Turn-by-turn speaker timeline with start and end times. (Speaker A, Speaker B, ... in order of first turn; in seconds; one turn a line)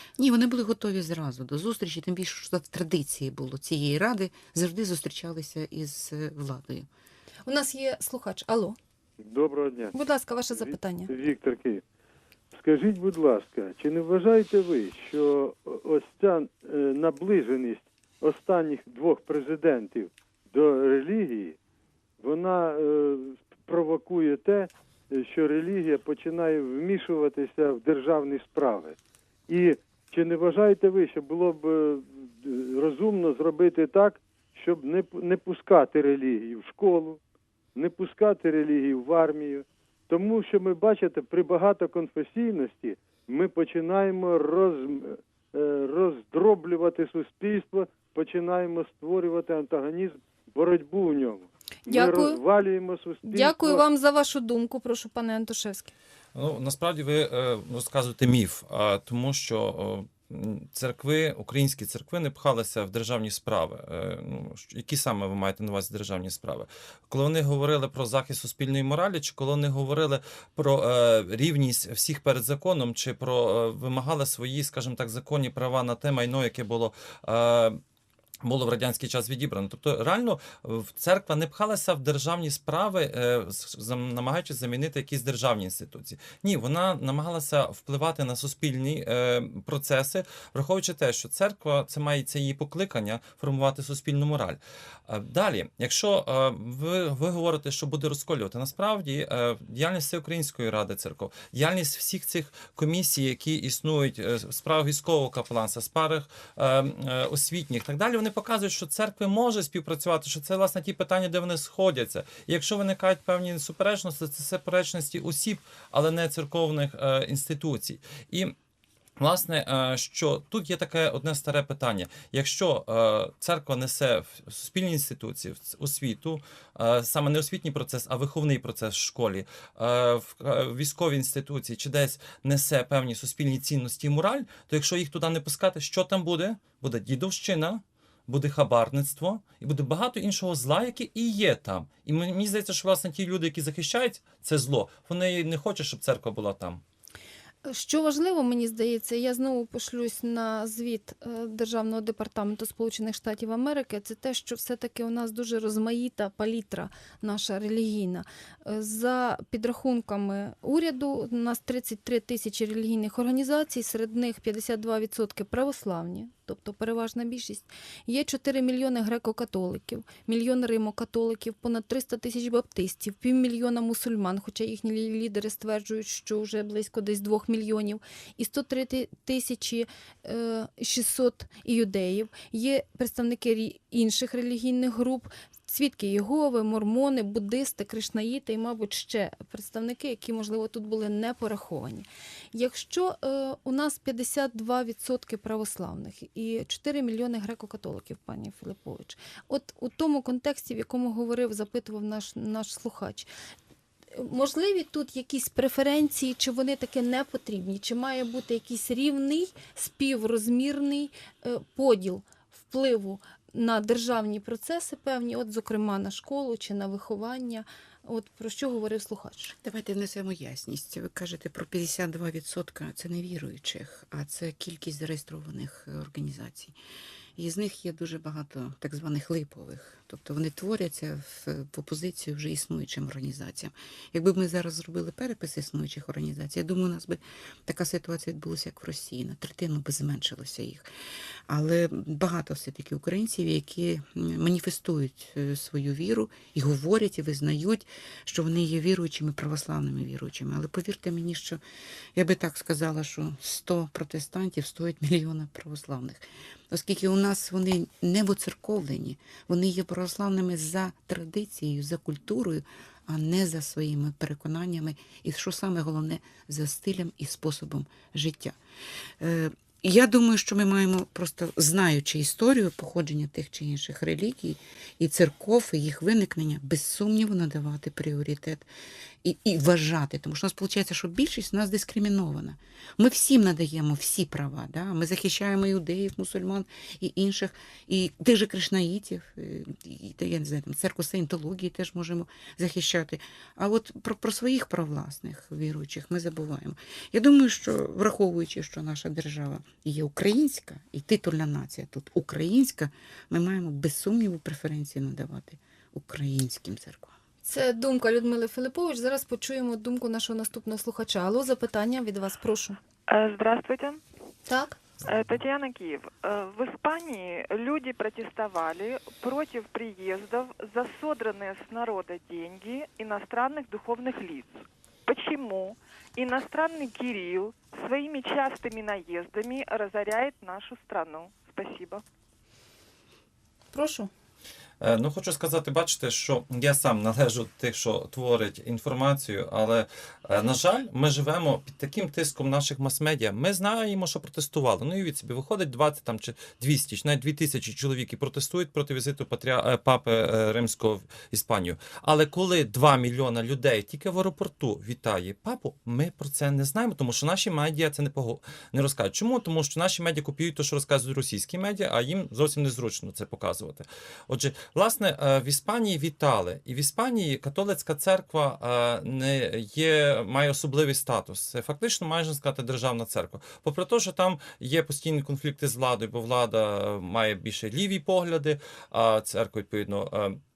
Speaker A: 0.2-6.9
Speaker B: 7.5-8.8
Speaker C: 9.2-10.0
Speaker B: 9.9-11.1
Speaker C: 10.6-11.8
Speaker C: 12.5-21.6
Speaker C: 22.2-29.0
Speaker C: 29.5-37.2
Speaker C: 37.8-53.8
Speaker B: 51.9-52.4
Speaker B: 53.2-55.9
Speaker D: 56.3-77.8
Speaker D: 78.4-118.5
Speaker D: 119.2-146.8
Speaker B: 147.6-203.3
Speaker B: 204.1-219.6
Speaker A: 219.6-226.8
Speaker A: 227.4-240.9
Speaker A: 241.5-251.6
Speaker A: 252.2-268.6
Speaker A: 269.2-278.7
Speaker A: 279.2-307.1
Speaker B: 307.4-312.8
Speaker E: 313.1-314.0
Speaker B: 314.5-314.8
Speaker E: 315.0-332.0
Speaker B: 333.7-334.1
Speaker D: 334.8-380.4